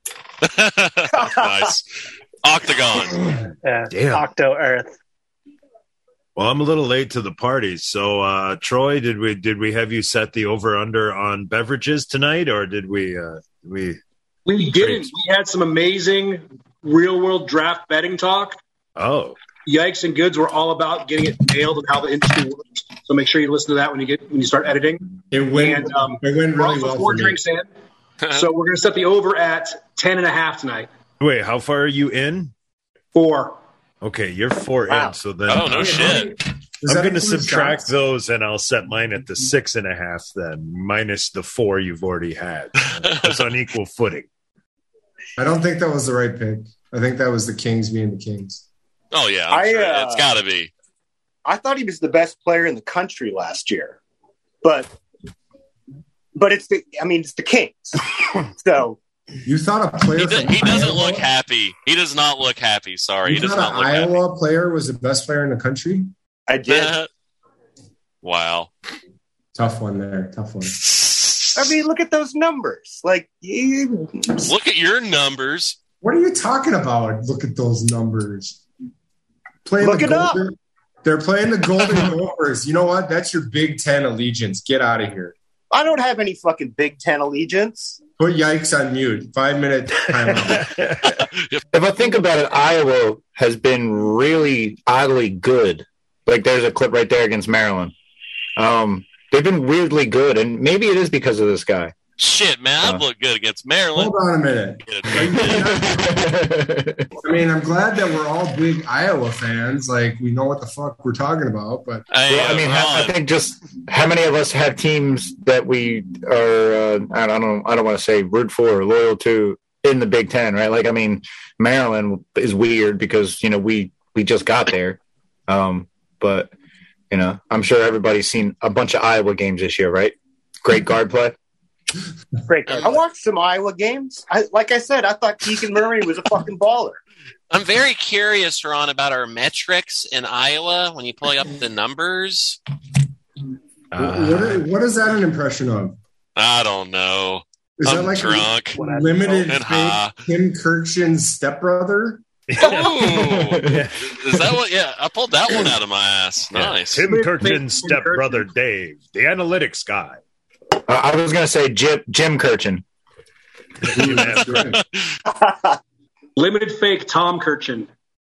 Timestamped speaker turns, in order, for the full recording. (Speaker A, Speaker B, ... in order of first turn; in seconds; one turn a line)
Speaker A: 0.4-1.9
Speaker B: 1.1-1.6
Speaker A: 2.4-3.2
Speaker C: 3.6-5.0
Speaker D: 3.9-4.3
Speaker D: 6.4-14.0
Speaker E: 14.5-18.6
Speaker D: 14.8-15.1
Speaker D: 19.0-19.4
Speaker E: 19.6-27.7
Speaker F: 25.3-27.4
Speaker E: 28.3-30.9
Speaker D: 31.2-32.5
Speaker E: 33.1-33.6
Speaker D: 34.0-36.3
Speaker B: 34.9-35.1
Speaker A: 35.5-36.3
Speaker F: 35.7-37.9
Speaker D: 36.9-44.3
Speaker A: 43.0-43.4
Speaker F: 45.4-48.6
Speaker A: 49.1-50.7
Speaker B: 49.5-50.3
Speaker B: 51.5-54.0
Speaker B: 54.6-54.9
Speaker B: 56.4-59.0
Speaker F: 59.5-61.3
Speaker A: 60.2-64.2
Speaker F: 63.3-66.1
Speaker B: 66.5-67.0
Speaker A: 66.7-67.1
Speaker A: 68.2-68.7
Speaker F: 69.5-70.8
Speaker A: 71.0-71.7
Speaker B: 71.6-74.5
Speaker A: 74.4-75.8
Speaker F: 76.0-78.6
Speaker F: 79.7-85.3
Speaker B: 79.8-80.4
Speaker B: 85.7-88.0
Speaker F: 88.2-90.8
Speaker D: 90.5-91.1
Speaker A: 91.2-91.6
Speaker G: 91.7-97.9
Speaker G: 98.6-102.0
Speaker A: 102.2-104.2
Speaker F: 104.0-106.4
Speaker A: 104.9-105.8
Speaker G: 105.4-107.1
Speaker F: 107.2-112.0
Speaker A: 112.1-113.2
Speaker G: 112.3-126.5
Speaker G: 127.1-131.4
Speaker C: 132.5-133.0
Speaker B: 132.8-137.0
Speaker A: 137.5-142.6
Speaker D: 143.9-144.7
Speaker F: 144.0-146.0
Speaker A: 146.4-148.8
Speaker F: 147.8-152.2
Speaker C: 148.8-149.5
Speaker A: 149.5-150.2
Speaker D: 152.5-154.0
Speaker A: 152.6-157.1
Speaker G: 153.0-153.9
Speaker D: 156.5-160.2
Speaker E: 157.0-158.5
Speaker G: 160.9-162.8
Speaker D: 163.8-164.8
Speaker F: 163.9-164.8
Speaker A: 164.5-165.2
Speaker B: 165.4-165.8
Speaker E: 166.4-167.9